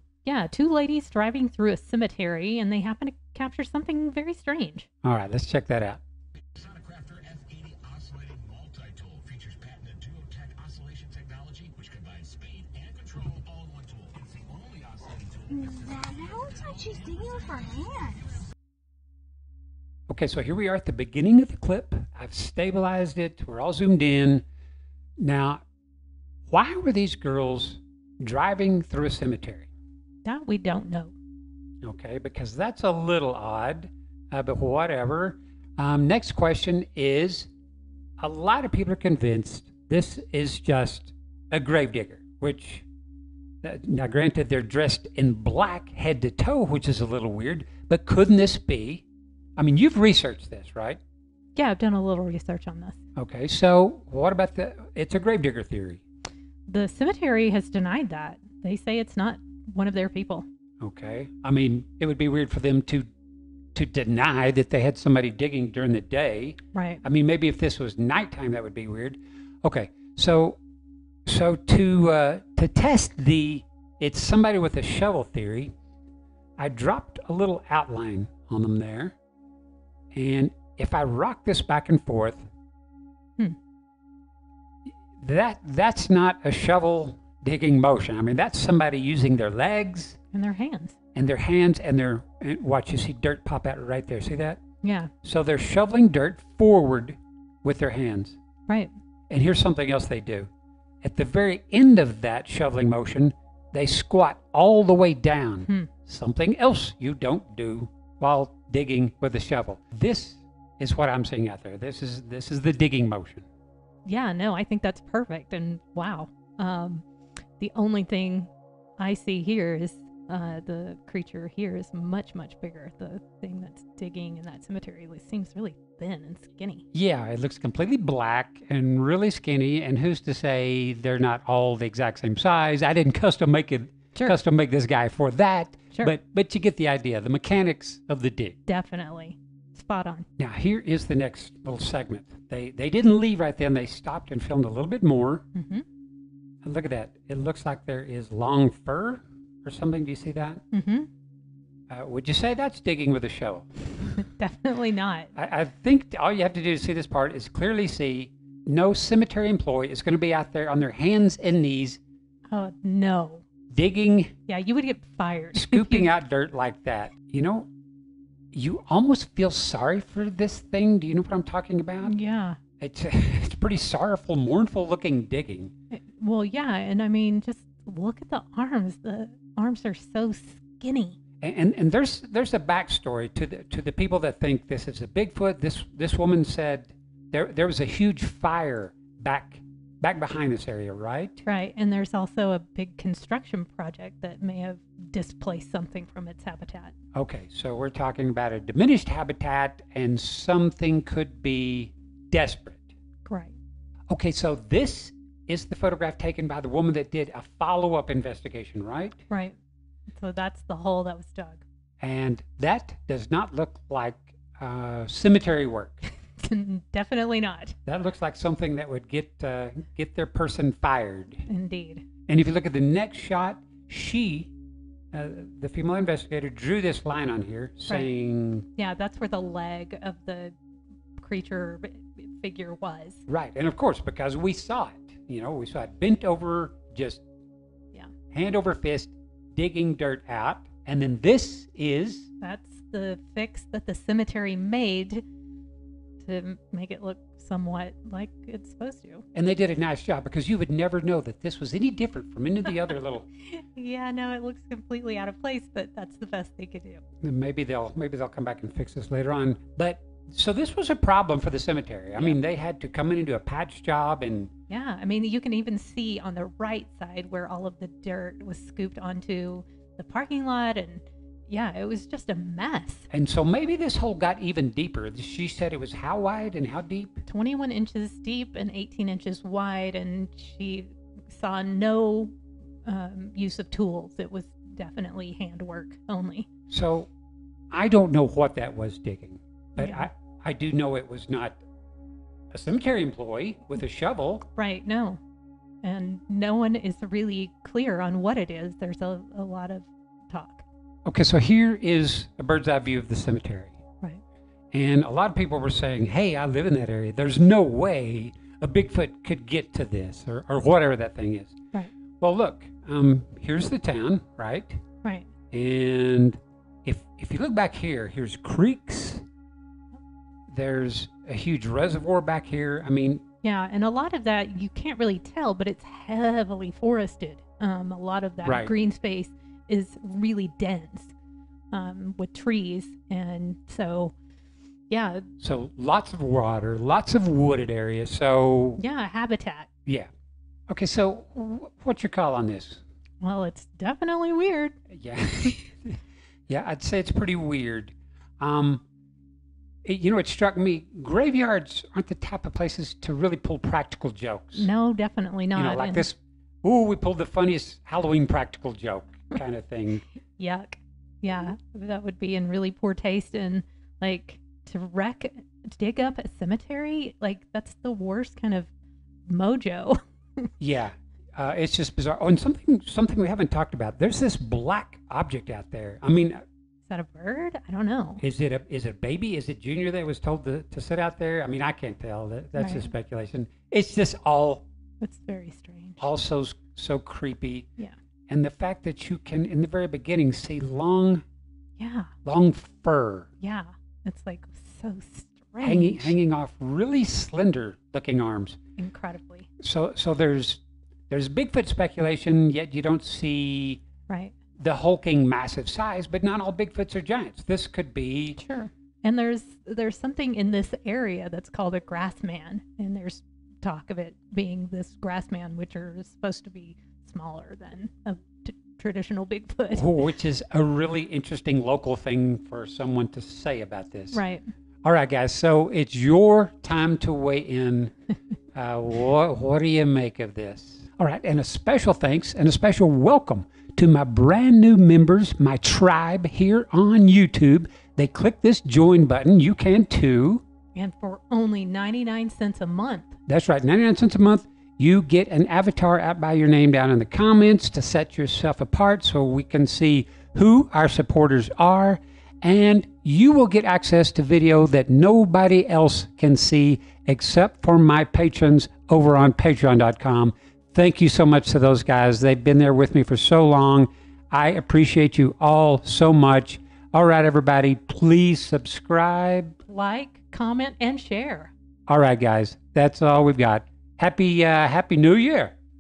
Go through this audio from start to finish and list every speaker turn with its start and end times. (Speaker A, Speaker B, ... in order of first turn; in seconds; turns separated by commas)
Speaker A: 0.2-4.9, Speaker B: 5.0-6.0, Speaker C: 6.6-16.4, Speaker D: 15.9-18.2, Speaker B: 20.1-24.4, Speaker B: 25.2-25.6, Speaker B: 26.5-29.7, Speaker A: 30.2-31.1, Speaker B: 31.8-37.5, Speaker B: 38.2-42.9, Speaker B: 43.6-49.0, Speaker B: 49.6-51.0, Speaker A: 51.6-53.0, Speaker B: 53.2-56.0, Speaker A: 56.7-60.5, Speaker B: 60.8-63.1, Speaker B: 63.7-70.6, Speaker A: 66.7-67.0, Speaker B: 71.3-75.7, Speaker B: 76.6-79.2, Speaker B: 80.1-82.5, Speaker B: 85.2-90.2, Speaker A: 90.3-91.0, Speaker B: 91.2-94.6, Speaker A: 94.8-95.1, Speaker B: 95.2-98.4, Speaker A: 98.7-98.9, Speaker B: 99.3-100.5, Speaker B: 101.0-113.5, Speaker A: 114.0-117.0, Speaker A: 117.6-126.8, Speaker B: 126.9-138.6, Speaker A: 138.7-140.3, Speaker B: 140.4-145.4, Speaker A: 145.5-145.8, Speaker B: 146.6-150.6, Speaker A: 150.7-151.1, Speaker B: 151.9-154.2, Speaker A: 154.2-155.3, Speaker B: 155.3-162.0, Speaker A: 162.5-163.4, Speaker B: 163.7-164.3, Speaker A: 164.5-166.1, Speaker B: 165.5-167.7, Speaker B: 168.5-172.2, Speaker A: 172.0-172.6, Speaker B: 172.8-175.7, Speaker A: 175.9-181.2, Speaker B: 181.4-191.4, Speaker A: 191.4-196.9, Speaker B: 197.2-202.9, Speaker A: 203.2-203.6, Speaker B: 204.1-209.2, Speaker A: 209.3-209.6, Speaker A: 210.2-211.6, Speaker B: 212.0-216.0, Speaker A: 216.4-217.8, Speaker B: 217.9-221.5, Speaker A: 221.5-222.1, Speaker B: 222.3-224.5, Speaker B: 225.1-228.7, Speaker A: 228.8-230.5, Speaker A: 231.2-233.2, Speaker B: 233.3-237.2, Speaker B: 238.3-242.3, Speaker A: 242.4-245.2, Speaker A: 246.2-249.2, Speaker B: 249.3-253.3, Speaker A: 253.5-257.0, Speaker B: 257.2-264.5, Speaker A: 264.7-273.1, Speaker B: 273.1-277.2, Speaker A: 277.3-282.3, Speaker A: 282.9-286.5, Speaker B: 286.7-287.1, Speaker B: 287.7-291.6, Speaker A: 289.8-290.1, Speaker B: 292.5-294.4, Speaker A: 294.6-295.2, Speaker A: 295.8-300.6, Speaker B: 301.1-303.8, Speaker B: 304.7-311.6, Speaker B: 312.2-314.8, Speaker A: 315.0-315.3, Speaker B: 315.5-319.2, Speaker B: 320.5-323.2, Speaker A: 323.4-331.1, Speaker B: 328.4-328.7, Speaker A: 331.7-334.1, Speaker A: 334.9-335.3, Speaker B: 335.4-338.8, Speaker A: 338.8-339.7, Speaker B: 340.7-342.8, Speaker A: 343.2-344.8, Speaker B: 344.9-346.0, Speaker B: 346.5-348.8, Speaker B: 349.8-354.7, Speaker A: 354.6-356.1, Speaker B: 355.6-360.1, Speaker A: 360.4-368.7, Speaker A: 369.3-370.5, Speaker B: 370.6-376.4, Speaker A: 376.9-378.2, Speaker B: 378.2-384.6, Speaker A: 382.6-382.9, Speaker A: 385.0-386.0, Speaker B: 386.0-387.7, Speaker B: 388.3-391.2, Speaker A: 391.8-392.1, Speaker B: 392.3-393.3, Speaker A: 393.4-396.1, Speaker B: 395.6-398.6, Speaker A: 398.8-399.5, Speaker B: 399.6-403.8, Speaker A: 404.1-404.4, Speaker B: 404.6-408.4, Speaker A: 408.4-419.9, Speaker B: 419.8-424.2, Speaker A: 424.1-424.4, Speaker B: 424.8-427.9, Speaker B: 428.5-440.4, Speaker A: 440.8-443.1, Speaker B: 443.3-469.6, Speaker A: 469.7-471.5, Speaker B: 471.9-475.6